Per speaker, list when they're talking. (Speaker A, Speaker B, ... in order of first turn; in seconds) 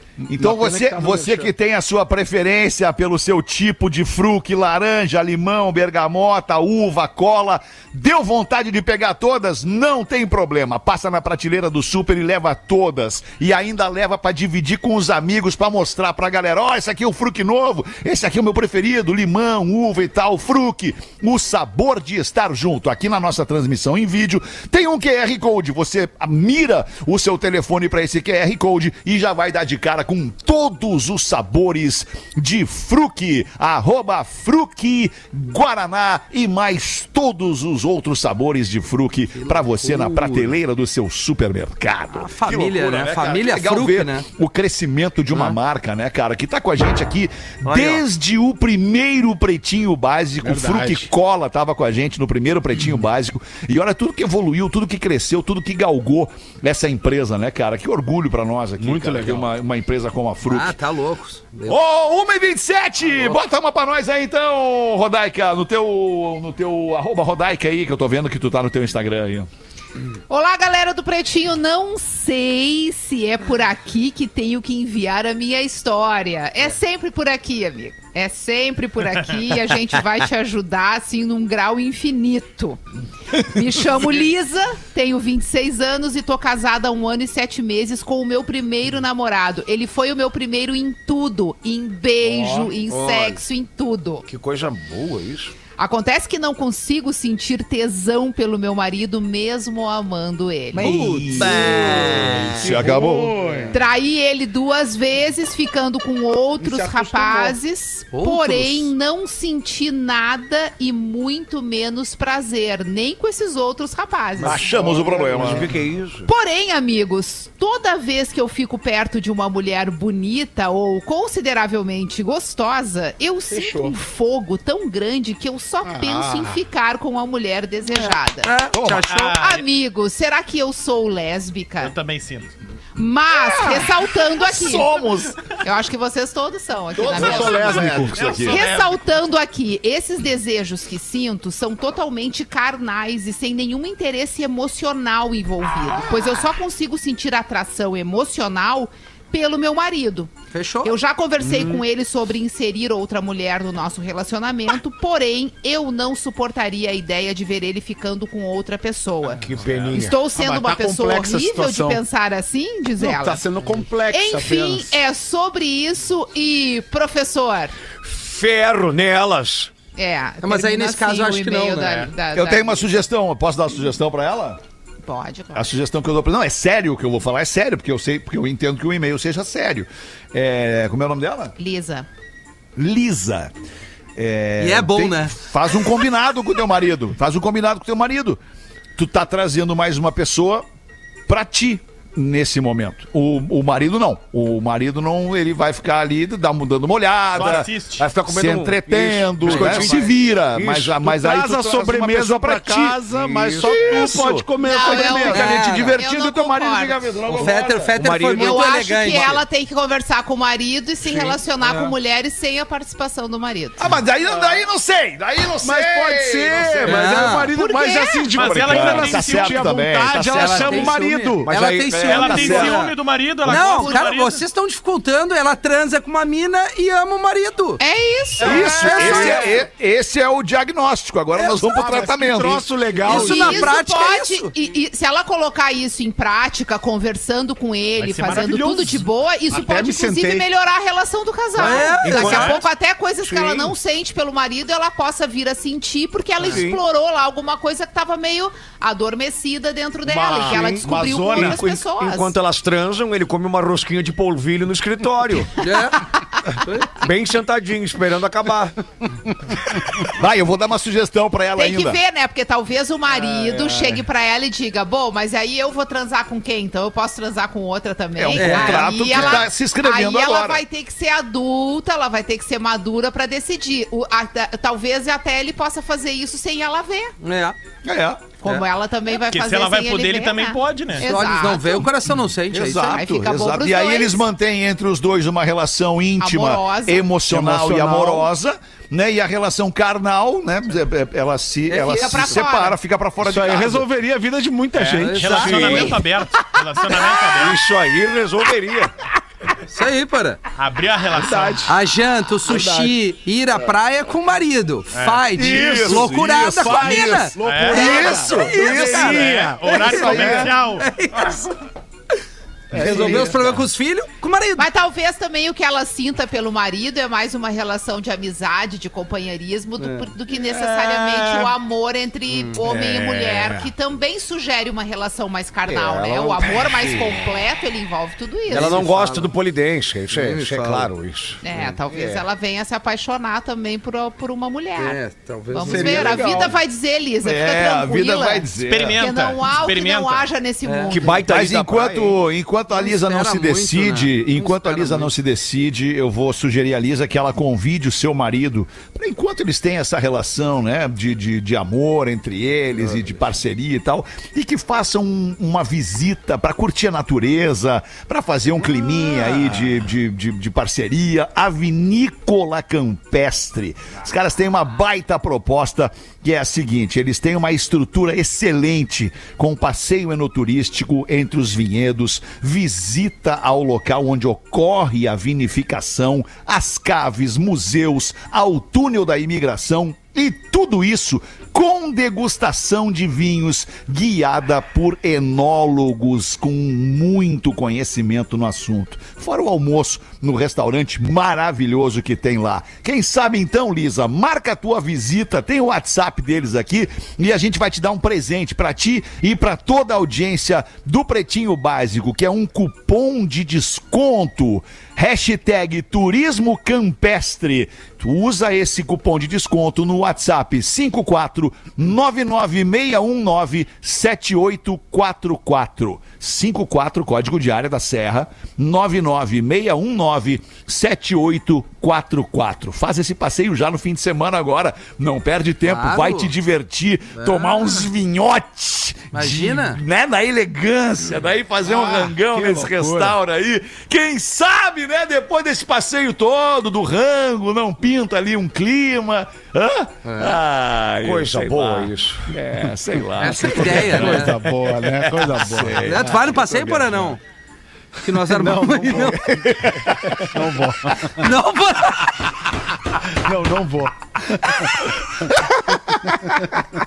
Speaker A: 0.2-60.8, 61.6-69.5, 100.8-103.4, 114.4-115.7, 128.7-129.1, 133.3-135.4, 136.9-138.7, 172.3-174.6, 175.5-181.5, 182.8-183.5, 184.2-188.4, 188.9-190.7, 191.3-197.7, 198.2-203.0, 203.6-207.9, 213.8-217.3, 218.4-221.0, 222.0-222.8, 228.4-232.7, 260.1-262.0, 268.1-270.6, 277.8-278.3, 282.5-293.9, 305.3-310.5, 312.7-313.3, 337.2-339.0, 341.2-446.2, 449.1-450.5, 454.9-456.5
Speaker B: 0.3-1.5, 50.4-51.1, 58.8-59.5, 102.6-103.8, 106.6-107.5, 114.4-115.8, 123.5-124.0, 125.8-126.6, 137.1-138.5, 160.3-162.0, 163.0-165.0, 201.0-205.5, 214.2-214.6, 215.6-221.5, 228.4-229.6, 231.3-233.7, 239.5-240.4, 250.1-251.6, 263.2-264.0, 287.3-288.3, 293.2-295.9, 301.1-301.8, 302.5-302.9, 305.5-310.5, 312.7-313.5, 335.6-336.5, 431.6-433.1, 443.5-447.1, 448.2-449.2, 450.2-451.3, 453.1-454.8, 456.2-456.5
Speaker C: 39.3-40.5, 42.1-44.2, 45.3-45.6, 47.6-48.0, 60.4-61.8, 92.8-93.4, 100.7-102.5, 108.1-108.9, 128.0-129.4, 150.5-150.9, 170.4-172.1, 184.6-185.3, 199.5-199.8, 205.2-206.0, 207.3-209.4, 211.1-211.9, 216.8-217.5, 220.3-227.8, 228.4-229.6, 233.0-234.5, 241.6-242.6, 255.6-256.0, 256.6-257.0, 268.3-269.3, 277.2-277.6, 281.0-283.0, 291.7-292.4, 294.9-296.0, 299.7-300.4, 301.6-309.2, 309.7-311.5, 312.7-314.7, 319.8-321.5, 322.3-323.0, 328.5-329.3, 330.1-330.9, 334.8-336.5, 340.6-341.2, 342.7-345.1, 352.8-353.2, 425.6-426.3, 427.1-427.9, 429.1-429.8, 440.1-440.4, 443.2-444.4, 445.8-447.2, 448.0-449.4, 451.2-452.4
Speaker D: 70.3-82.8, 83.3-94.2, 95.8-100.9, 103.7-114.6, 116.2-128.5, 129.3-131.9, 132.9-134.9, 135.6-150.3, 150.8-163.4, 164.1-167.7, 169.9-172.8, 175.0-175.7, 181.6-182.1, 204.6-207.1, 208.3-213.8, 217.5-218.3, 223.6-223.8, 227.8-229.4, 233.1-252.3, 261.6-277.1, 278.4-281.9, 282.6-284.2, 286.2-287.1, 291.8-292.8, 314.6-328.9, 331.4-341.2
Speaker E: 94.2-95.5, 101.3-102.9, 115.3-116.3, 159.3-160.2, 168.0-169.7, 197.4-201.0, 203.1-204.1, 207.9-209.4, 221.4-222.7, 241.6-242.6, 243.2-243.7, 246.4-246.8, 250.3-255.6, 256.9-258.7, 297.3-298.9, 325.6-327.2, 328.5-332.2, 340.9-342.2, 441.0-442.3, 445.6-445.9
Speaker F: 129.1-129.7, 131.8-132.5, 138.2-138.8, 197.3-198.1, 218.3-219.7, 222.0-224.4, 238.0-239.1, 279.1-281.1, 294.7-297.6, 300.6-301.7, 304.9-305.3, 307.4-308.0, 308.8-310.9, 338.6-340.3